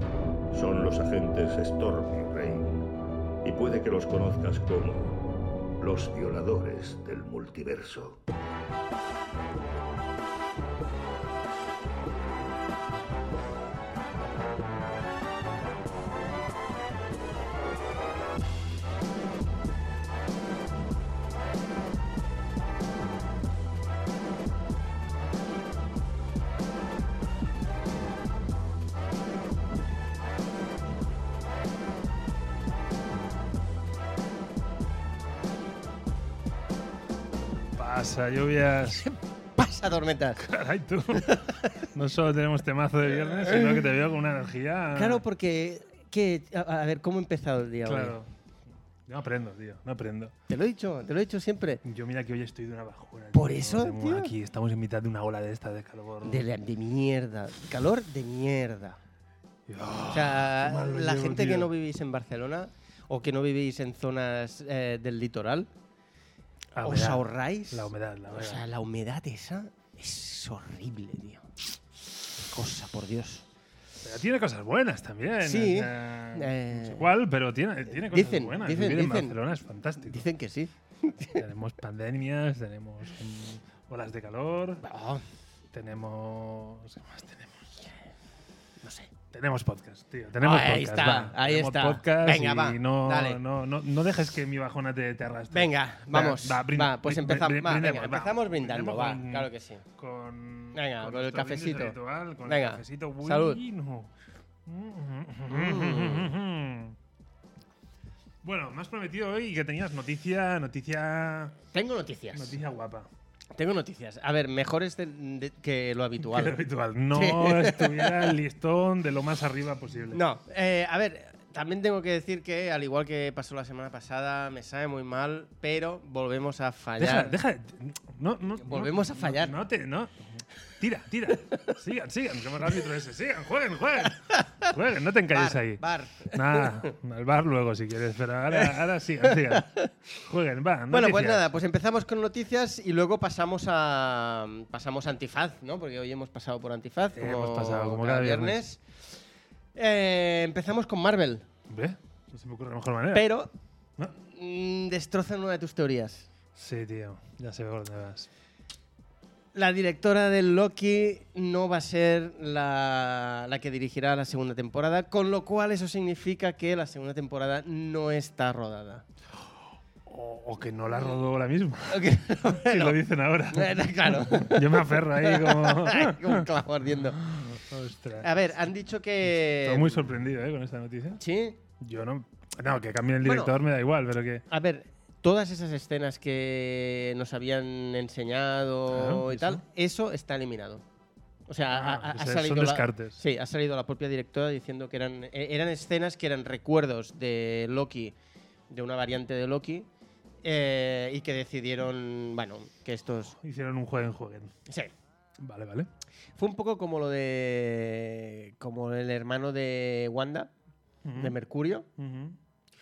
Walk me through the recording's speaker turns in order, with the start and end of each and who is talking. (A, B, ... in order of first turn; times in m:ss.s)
0:00.5-0:02.9 A
0:03.4-0:05.2 A
0:05.8-0:08.2 A
0:37.8-0:39.1 B
0:39.6-0:40.5 C
0:40.4-0:45.2 B
0:41.2-0:41.8 C
0:43.3-0:43.9 C
0:44.9-0:48.2 C
0:47.8-0:48.3 B
0:49.1-0:50.3 B
0:50.5-0:51.8 C
0:51.8-0:56.4 B
0:53.3-0:54.4 C
0:56.2-0:59.0 C
0:59.7-1:01.7 B
1:00.1-1:05.7 C
1:06.8-1:08.6 B
1:06.8-1:11.5 C
1:12.2-1:13.5 C
1:14.0-1:20.2 B
1:15.4-1:17.1 C
1:18.1-1:19.4 C
1:20.0-1:21.4 C
1:21.3-1:24.9 B
1:24.8-1:25.2 C
1:25.7-1:27.7 B
1:28.8-1:29.1 C
1:29.3-1:44.1 B
1:30.4-1:33.4 C
1:35.5-1:39.8 C
1:40.7-1:43.6 C
1:44.7-1:47.0 B
1:45.5-1:46.4 C
1:48.4-1:51.6 B
1:51.7-1:52.6 C
1:52.3-1:53.1 B
1:53.5-1:56.6 C
1:56.2-2:00.2 B
1:57.1-1:58.4 C
2:00.1-2:07.4 C
2:07.0-2:21.5 B
2:08.6-2:09.6 C
2:15.3-2:16.9 C
2:18.5-2:19.9 C
2:20.9-2:28.8 C
2:27.2-2:28.6 B
2:29.8-2:31.5 C
2:31.7-2:33.3 B
2:33.1-2:33.5 C
2:34.2-2:36.3 C
2:36.6-2:38.3 B
2:39.5-2:49.0 C
2:50.1-2:56.5 B
2:51.9-2:57.2 C
2:57.1-2:58.3 B
2:58.2-3:00.1 C
2:59.4-3:01.2 B
3:01.2-3:01.6 C
3:01.8-3:04.4 B
3:03.2-3:03.6 C
3:04.5-3:10.8 C
3:08.9-3:09.6 B
3:11.5-3:18.2 C
3:11.7-3:13.2 B
3:18.7-3:19.9 C
3:20.4-3:23.3 C
3:23.4-3:24.5 B
3:24.7-3:24.9 C
3:25.4-3:25.9 B
3:26.4-3:30.5 C
3:31.0-3:31.4 B
3:31.2-3:31.9 C
3:32.0-3:32.4 B